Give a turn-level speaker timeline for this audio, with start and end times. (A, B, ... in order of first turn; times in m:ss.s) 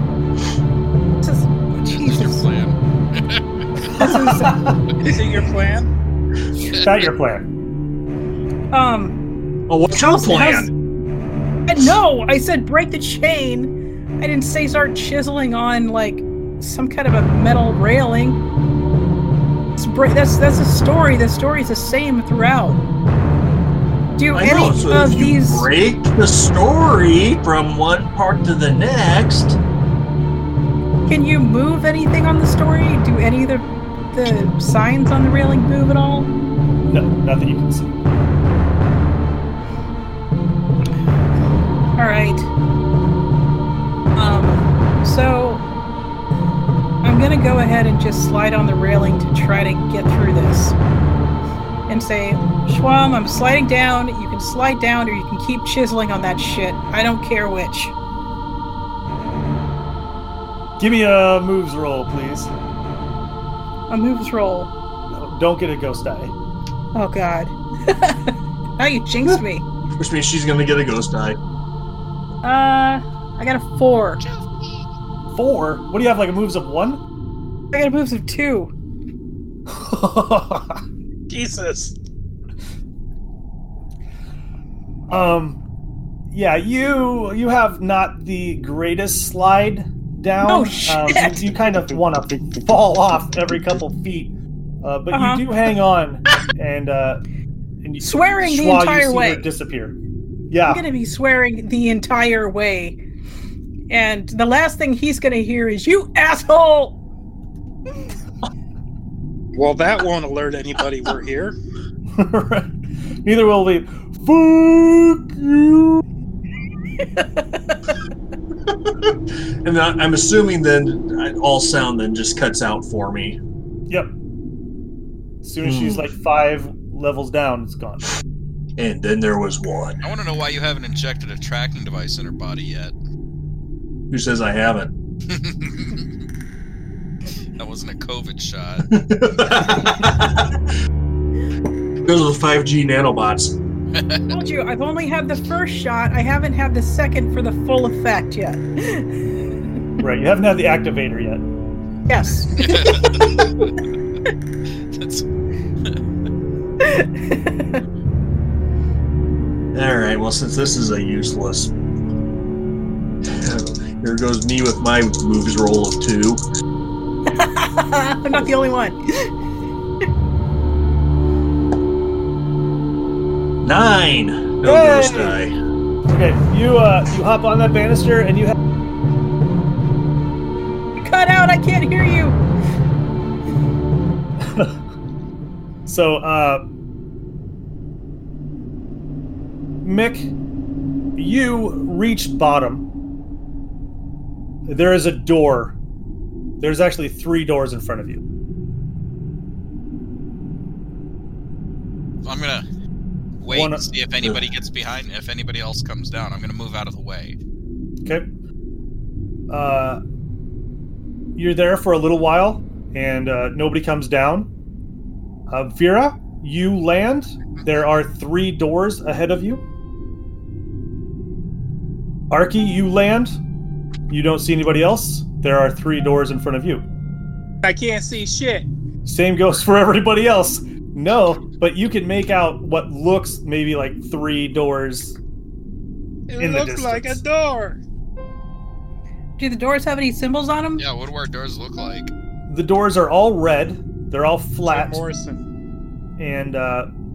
0:01.2-0:02.4 A
0:01.8-0:04.1 B
0:03.9-0:05.1 A
0:04.2-0:04.8 C
0:05.0-0:05.9 D
0:06.7-0:07.4 C
0:08.7-0:09.2 A
0:09.7-0:10.7 E
0:10.0-0:10.7 A
0:11.7-0:18.4 A
0:19.8-0:22.8 A
0:24.2-0:25.7 A
0:24.3-0:29.6 E
0:31.1-0:36.3 A
0:36.8-0:37.9 C
0:42.0-0:42.5 A
0:44.2-0:45.6 A
0:47.0-0:50.8 A
0:51.9-0:57.9 A
1:00.8-1:02.5 C
1:03.9-1:04.7 A
1:05.1-1:06.3 C
1:06.9-1:09.6 A
1:09.9-1:11.4 E
1:12.4-1:14.2 A
1:15.3-1:17.0 C
1:17.7-1:18.7 A
1:19.7-1:20.8 C
1:21.3-1:22.0 D
1:25.1-1:25.6 C
1:26.3-1:37.2 C
1:30.5-1:31.5 A
1:35.1-1:35.4 A
1:37.8-1:40.0 C
1:38.0-1:39.4 A
1:40.5-1:40.8 C
1:40.6-1:43.0 A
1:43.9-1:47.0 A
1:49.5-1:51.5 D
1:52.2-1:52.7 C
1:53.2-1:56.0 C
1:57.2-1:57.7 A
1:59.0-2:03.4 E
2:05.4-2:08.1 C
2:05.6-2:06.0 E
2:08.8-2:10.0 E
2:10.0-2:12.9 B
2:14.1-2:14.9 E
2:15.3-2:16.1 B
2:17.6-2:19.0 B
2:18.9-2:20.4 E
2:19.5-2:20.0 B
2:22.0-2:23.6 E
2:23.9-2:24.2 B
2:24.3-2:29.1 A
2:30.0-2:31.4 C
2:32.1-2:33.5 A
2:32.6-2:33.7 B
2:34.9-2:35.2 B
2:36.8-2:37.8 A
2:39.7-2:41.7 E
2:43.2-2:46.4 E
2:47.3-2:49.3 A
2:53.6-2:55.5 E
2:54.6-2:55.4 C
2:56.1-2:58.6 C
3:01.0-3:02.4 A
3:04.4-3:04.8 C
3:05.8-3:06.6 C
3:09.8-3:10.3 C
3:11.2-3:12.8 C
3:14.7-3:15.8 C
3:16.6-3:18.2 C
3:22.2-3:22.6 B
3:23.4-3:27.4 B
3:23.5-3:23.9 C
3:29.5-3:30.0 C
3:31.4-3:34.5 C
3:35.5-3:39.6 C
3:42.3-3:43.4 C
3:44.1-3:46.8 C
3:47.6-3:48.7 D
3:49.0-3:55.2 C
3:56.3-3:57.8 D
3:56.4-3:57.2 C
3:59.4-4:00.8 A
4:00.8-4:02.1 B
4:02.5-4:05.0 C
4:04.6-4:05.4 D
4:06.2-4:06.9 C